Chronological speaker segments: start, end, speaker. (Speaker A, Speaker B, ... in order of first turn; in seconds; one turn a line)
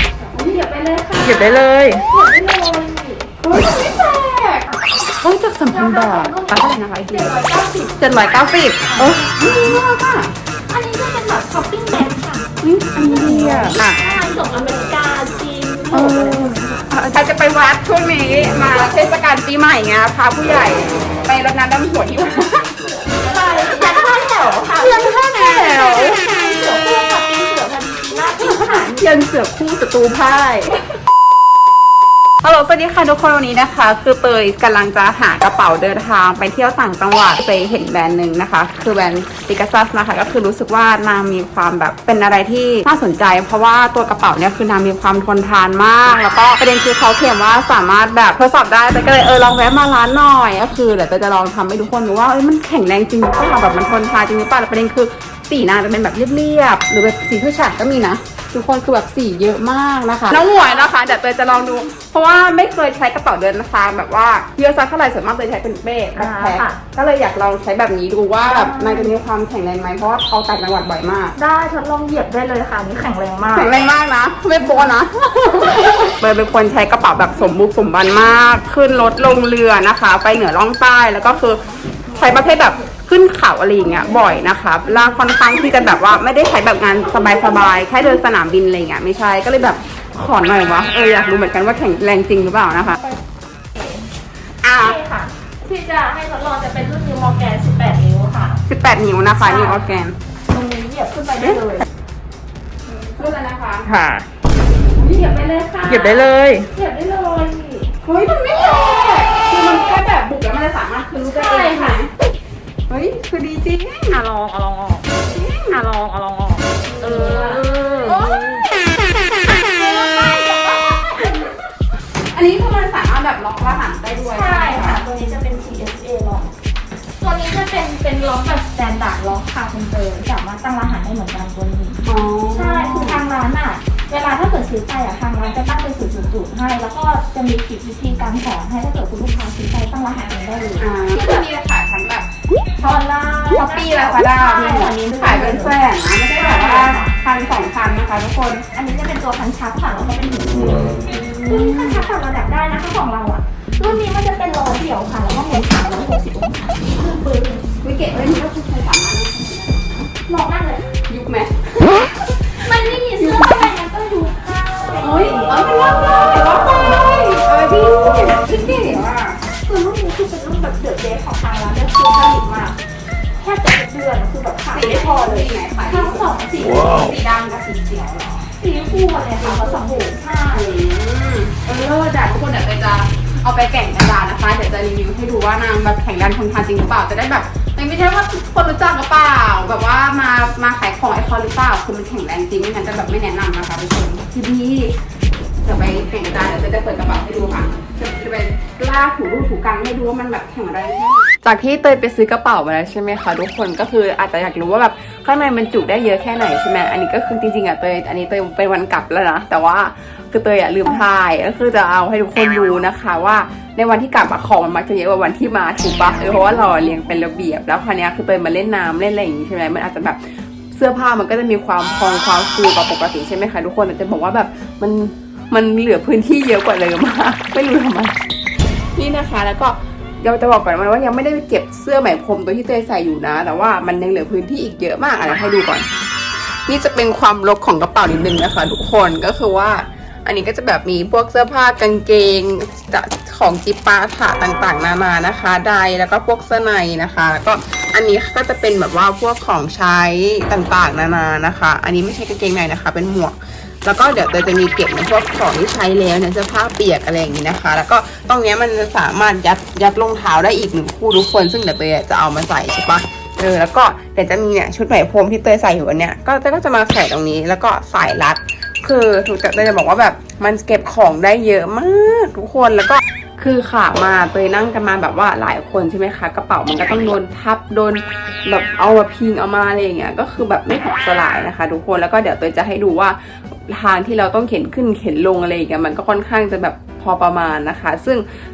Speaker A: 0.2-4.0
Speaker B: 0.3-1.6
Speaker C: 1.2-2.0
Speaker B: 3.4-4.7
Speaker A: 4.7-5.1
Speaker B: 5.2-7.3
Speaker A: 5.7-9.8
Speaker B: 8.0-10.3
Speaker A: 10.7-16.9
Speaker B: 12.6-14.0
Speaker B: 15.9-22.7
Speaker A: 22.9-29.0
Speaker B: 24.7-26.2
Speaker B: 28.4-30.8
Speaker B: 32.4-71.3
Speaker A: 60.4-61.0
Speaker A: 66.1-66.8
Speaker A: 68.4-69.1
Speaker A: 71.3-73.8
Speaker B: 73.5-81.6
Speaker A: 82.1-82.9
Speaker B: 82.2-93.0
Speaker A: 83.8-86.0
Speaker A: 87.0-88.2
Speaker A: 92.9-93.2
Speaker A: 93.7-94.1
Speaker B: 94.6-95.0
Speaker A: 94.8-98.6
Speaker B: 98.7-100.1
Speaker A: 99.3-99.9
Speaker A: 100.5-101.8
Speaker A: 102.8-103.4
Speaker B: 103.2-103.9
Speaker C: 103.8-104.2
Speaker A: 105.0-108.0
Speaker C: 105.9-106.7
Speaker B: 108.0-112.1
Speaker A: 111.2-112.0
Speaker B: 112.9-114.2
Speaker C: 114.1-115.1
Speaker B: 115.2-115.8
Speaker C: 115.7-118.4
Speaker B: 116.9-117.6
Speaker A: 117.0-117.6
Speaker A: 119.6-121.6
Speaker B: 122.3-125.0
Speaker A: 124.3-126.5
Speaker A: 127.2-141.4
Speaker B: 132.1-133.2
Speaker B: 140.8-142.3
Speaker A: 142.8-145.8
Speaker B: 143.5-148.7
Speaker A: 146.3-147.2
Speaker A: 148.7-157.7
Speaker B: 151.0-152.1
Speaker B: 157.8-160.2
Speaker A: 160.2-160.9
Speaker B: 161.1-163.7
Speaker A: 162.6-165.6
Speaker B: 165.0-169.4
Speaker A: 166.3-167.0
Speaker A: 167.9-168.7
Speaker A: 169.5-172.8
Speaker A: 173.4-177.0
Speaker B: 174.7-178.5
Speaker A: 178.6-180.8
Speaker B: 179.4-194.9
Speaker B: 195.6-220.2
Speaker B: 220.7-228.1
Speaker B: 228.9-235.9
Speaker B: 236.7-288.2